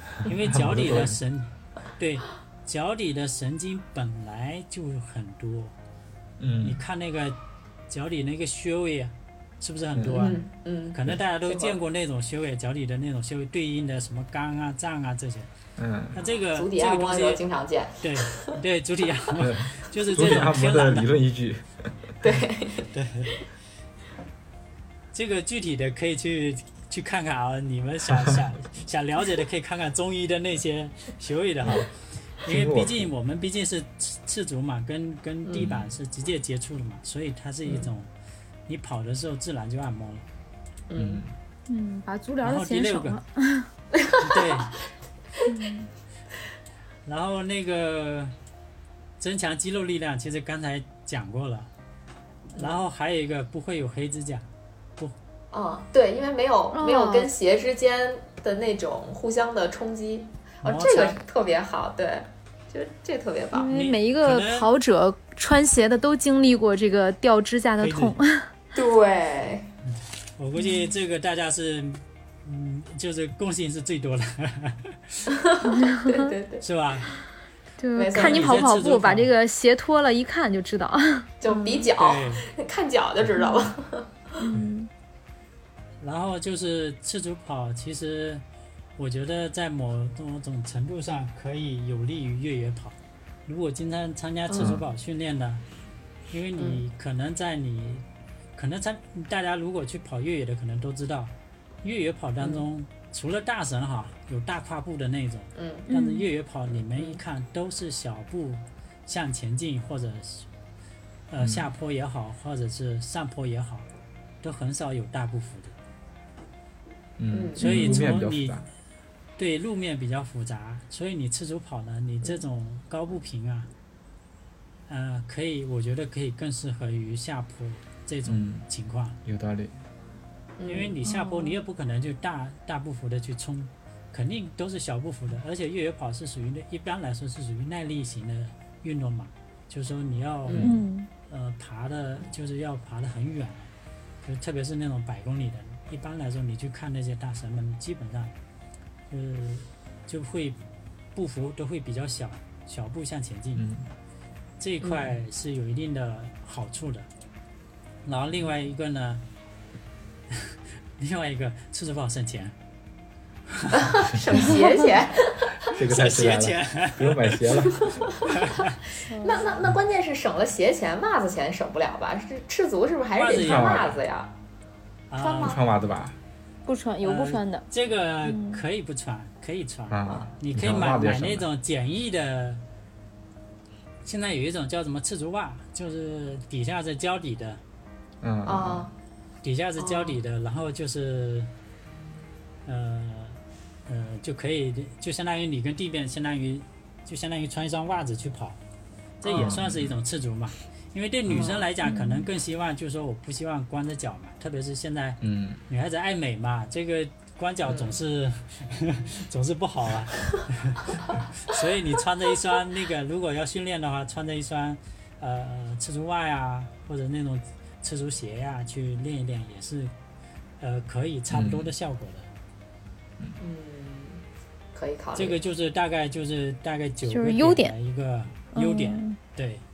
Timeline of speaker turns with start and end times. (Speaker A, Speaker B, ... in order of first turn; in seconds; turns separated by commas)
Speaker A: 0.2-5.7, Speaker B: 0.5-1.2, Speaker B: 6.4-6.8, Speaker A: 6.6-7.4, Speaker A: 7.9-10.4, Speaker C: 10.1-11.8, Speaker A: 10.9-15.5, Speaker B: 15.8-16.2, Speaker A: 16.1-17.4, Speaker C: 16.5-18.5, Speaker A: 18.0-21.1, Speaker B: 19.4-21.9, Speaker C: 22.2-22.9, Speaker A: 22.9-23.3, Speaker A: 25.1-31.9, Speaker A: 32.4-38.1, Speaker B: 32.4-33.1, Speaker B: 35.6-35.9, Speaker A: 38.7-40.2, Speaker C: 40.9-41.2, Speaker B: 41.0-41.3, Speaker D: 41.7-43.7, Speaker A: 42.4-43.2, Speaker C: 44.0-44.4, Speaker A: 44.2-44.8, Speaker D: 45.4-45.9, Speaker A: 47.0-48.3, Speaker A: 49.2-51.7, Speaker A: 52.5-55.1, Speaker C: 55.5-63.7, Speaker D: 56.7-57.3, Speaker A: 60.6-61.2, Speaker D: 63.5-68.5, Speaker A: 63.7-64.7, Speaker A: 67.8-68.2, Speaker C: 68.7-69.7, Speaker A: 70.4-75.3, Speaker D: 70.5-70.9, Speaker C: 75.3-77.2, Speaker D: 75.6-76.3, Speaker A: 76.6-77.1, Speaker D: 77.8-81.9, Speaker C: 78.0-78.7, Speaker A: 78.1-79.3, Speaker C: 81.4-84.4, Speaker A: 82.0-82.5, Speaker D: 83.4-83.6, Speaker D: 84.4-84.9, Speaker A: 86.0-88.4, Speaker A: 89.0-95.6, Speaker C: 94.5-94.8, Speaker B: 94.6-94.8, Speaker A: 96.3-98.0, Speaker C: 96.6-96.8, Speaker A: 98.5-101.3, Speaker A: 101.8-110.5, Speaker C: 105.5-105.8, Speaker D: 105.9-106.3, Speaker A: 111.3-113.9, Speaker A: 114.4-115.8, Speaker B: 117.2-118.7, Speaker C: 117.3-118.0, Speaker A: 117.6-118.6, Speaker A: 119.4-123.7, Speaker A: 124.9-129.2, Speaker B: 128.2-128.6, Speaker B: 129.2-129.7, Speaker C: 130.6-130.9, Speaker A: 130.6-143.7, Speaker D: 131.0-131.6, Speaker C: 140.4-140.8, Speaker D: 140.6-141.1, Speaker A: 144.2-148.3, Speaker A: 149.1-150.6, Speaker A: 151.1-153.7, Speaker B: 153.6-153.9, Speaker A: 154.6-157.1, Speaker C: 154.8-155.1, Speaker A: 158.0-159.2, Speaker A: 160.3-162.5, Speaker A: 163.6-163.8, Speaker C: 163.7-165.7, Speaker B: 165.6-168.1, Speaker A: 165.8-167.4, Speaker C: 167.8-168.4, Speaker A: 168.3-168.8, Speaker D: 169.1-169.5, Speaker C: 169.1-174.3, Speaker A: 173.1-173.9, Speaker B: 173.4-174.0, Speaker A: 175.1-175.6, Speaker C: 175.2-175.6, Speaker B: 175.4-176.2, Speaker D: 176.6-177.7, Speaker A: 177.0-182.6, Speaker D: 178.2-178.6, Speaker B: 179.9-181.4, Speaker A: 184.0-187.6, Speaker B: 188.2-188.8, Speaker C: 188.4-188.9, Speaker A: 189.4-191.5, Speaker C: 189.8-190.2, Speaker A: 192.6-198.6, Speaker A: 199.2-219.9, Speaker C: 199.2-199.6, Speaker B: 199.3-199.9, Speaker C: 201.3-201.7, Speaker D: 201.8-202.3, Speaker B: 205.2-205.6, Speaker C: 207.7-207.9, Speaker A: 220.6-222.3, Speaker B: 221.3-221.7, Speaker C: 223.4-225.4, Speaker A: 225.1-229.6, Speaker D: 227.1-227.7, Speaker D: 228.5-229.2